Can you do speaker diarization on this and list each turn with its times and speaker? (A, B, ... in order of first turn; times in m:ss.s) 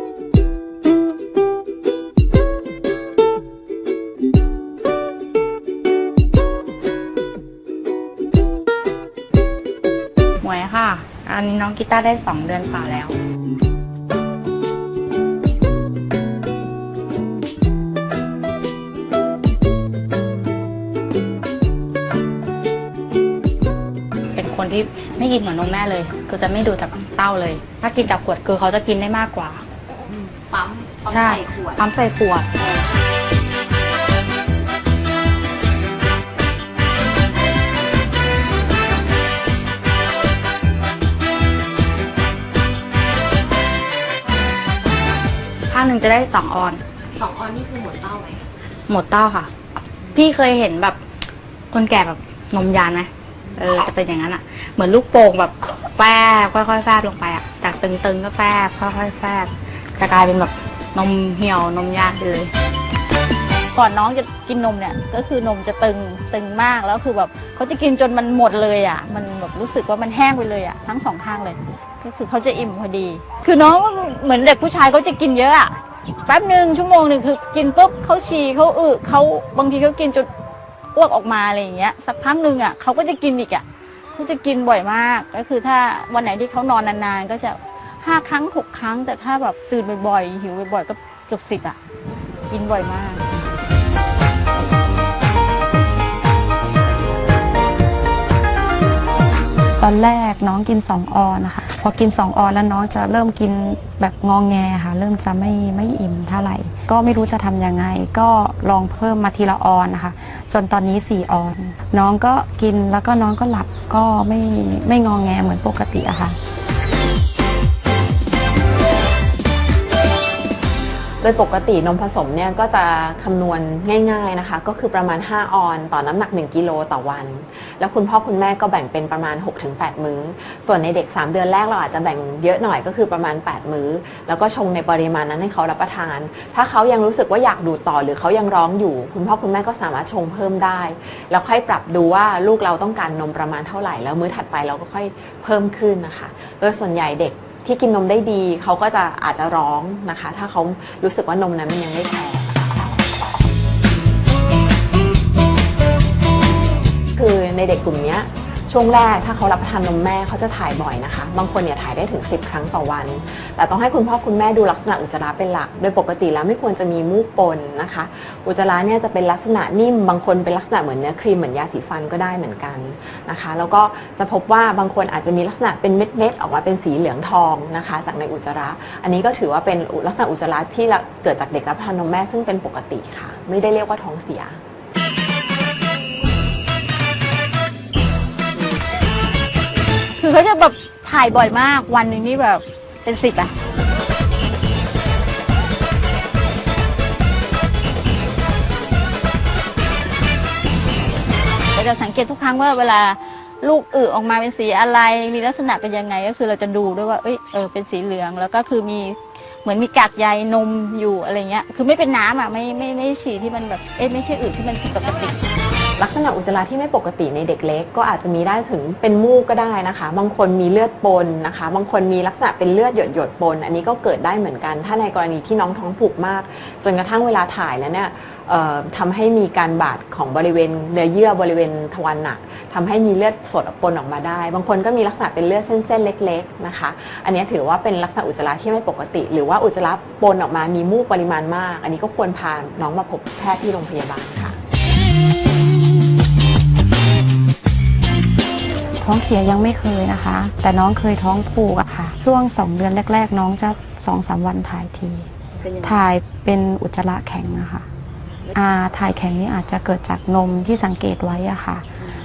0:10.4-0:13.2 A
0:24.3-0:29.6 A
0:30.1-0:31.8 B
0:31.1-0:32.5 A
0:32.6-0:32.9 B
0:45.7-0:46.8 A
0:47.1-0:48.5 B
0:48.9-0:49.5 A
0:50.1-0:51.0 A
0:51.7-1:02.5 A
1:03.7-1:20.3 C
1:20.9-1:31.8 C
1:32.4-1:33.2 C
1:39.8-1:56.4 D
2:01.2-2:32.8 E
2:37.2-3:04.6 E
3:10.2-3:13.5 C
3:21.7-3:35.4 C
3:36.0-4:04.6 E
4:09.0-4:15.3 D
4:15.8-4:17.9 D
4:18.5-4:21.9 D